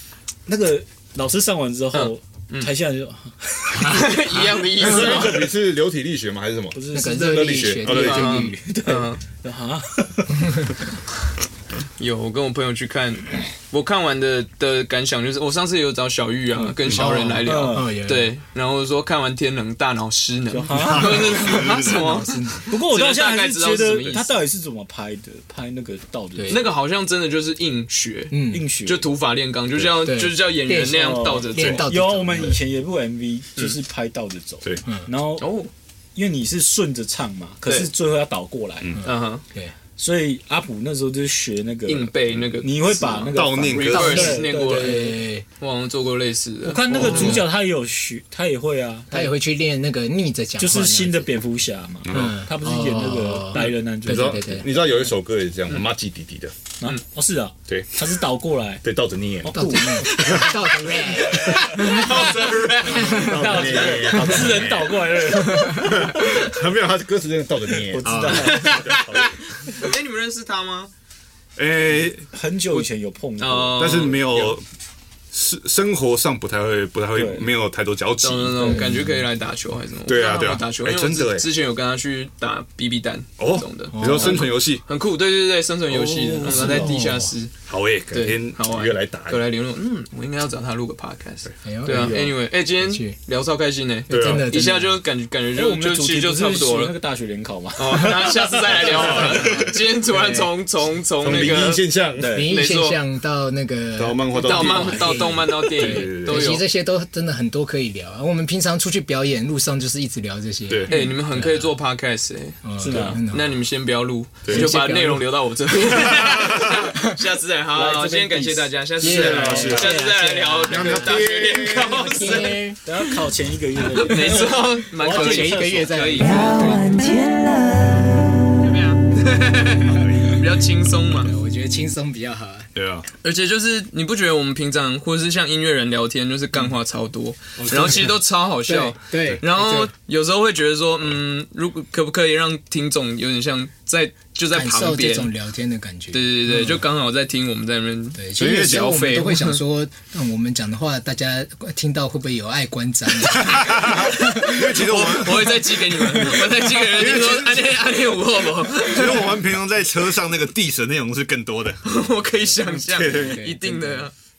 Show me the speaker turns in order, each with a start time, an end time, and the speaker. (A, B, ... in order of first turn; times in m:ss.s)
0:00.5-0:04.0 A
0:01.9-0:02.7 B
0:03.7-0:04.2 C
0:03.8-0:05.5 B
0:04.8-0:08.3 D
0:04.8-0:05.3 C
0:04.9-0:05.5 A
0:06.7-0:10.7 A
0:06.9-0:08.6 C
0:08.0-0:09.2 B
0:12.0-0:24.4 B
0:16.5-0:17.9 A
0:16.8-0:17.2 D
0:16.9-0:18.3 C
0:20.5-0:21.4 A
0:20.7-0:22.0 D
0:21.4-0:22.7 C
0:22.7-0:26.6 A
0:26.5-0:31.8 B
0:28.3-0:28.6 C
0:28.5-0:29.1 A
0:30.0-0:32.6 C
0:30.8-0:35.4 A
0:35.4-0:35.7 B
0:36.1-0:38.9 A
0:39.0-0:39.7 C
0:39.0-0:39.4 B
0:40.0-0:45.2 A
0:41.9-0:47.4 B
0:43.3-0:44.4 D
0:44.4-0:45.4 C
0:46.6-0:49.3 A
0:47.0-0:47.5 C
0:49.1-0:51.3 C
0:50.6-0:54.5 A
0:52.0-0:52.3 D
0:52.1-0:54.7 C
0:54.0-0:56.5 D
0:56.8-0:58.8 A
0:58.8-1:00.5 D
0:59.4-1:00.2 A
0:59.5-1:03.6 C
1:00.0-1:04.0 B
1:02.9-1:08.3 D
1:03.2-1:05.9 A
1:05.5-1:06.1 C
1:07.9-1:08.8 A
1:08.0-1:08.7 C
1:08.3-1:10.9 B
1:08.8-1:09.4 D
1:11.6-1:12.3 D
1:12.3-1:14.2 A
1:12.7-1:14.6 B
1:13.8-1:14.6 D
1:15.3-1:18.8 D
1:17.1-1:17.5 A
1:18.2-1:27.5 B
1:18.6-1:19.2 C
1:20.0-1:21.5 D
1:23.4-1:24.8 D
1:23.9-1:24.4 C
1:24.0-1:24.4 A
1:25.9-1:27.0 A
1:26.4-1:27.3 C
1:27.7-1:29.4 D
1:28.1-1:36.9 B
1:31.6-1:33.2 C
1:31.8-1:32.3 A
1:34.1-1:35.0 C
1:34.1-1:34.6 D
1:35.5-1:40.5 A
1:37.8-1:41.9 B
1:38.8-1:39.8 D
1:41.2-1:42.5 D
1:42.1-1:42.5 A
1:42.3-1:51.7 C
1:42.5-1:43.0 B
1:44.0-1:46.6 D
1:44.3-1:46.6 B
1:50.9-2:03.1 B
1:52.6-1:53.6 C
1:52.8-1:53.2 A
1:54.4-1:54.7 D
1:54.5-1:55.3 C
1:55.9-1:56.8 D
1:56.7-1:57.2 C
1:57.7-2:01.0 A
1:59.0-2:01.2 C
1:59.0-1:59.9 D
2:00.7-2:02.4 D
2:01.7-2:02.8 C
2:02.8-2:06.0 A
2:04.0-2:06.9 B
2:05.0-2:06.8 C
2:06.2-2:08.6 E
2:08.6-2:11.3 B
2:09.9-2:10.3 D
2:11.2-2:12.7 C
2:12.7-2:13.0 D
2:13.2-2:25.3 B
2:17.6-2:19.9 C
2:24.5-2:26.8 C
2:26.1-2:29.6 B
2:28.1-2:35.1 C
2:28.4-2:28.9 D
2:33.3-2:38.0 D
2:34.5-2:39.4 B
2:36.0-2:36.5 C
2:38.8-2:41.8 D
2:41.8-2:44.1 B
2:42.6-2:44.1 C
2:42.7-2:43.5 D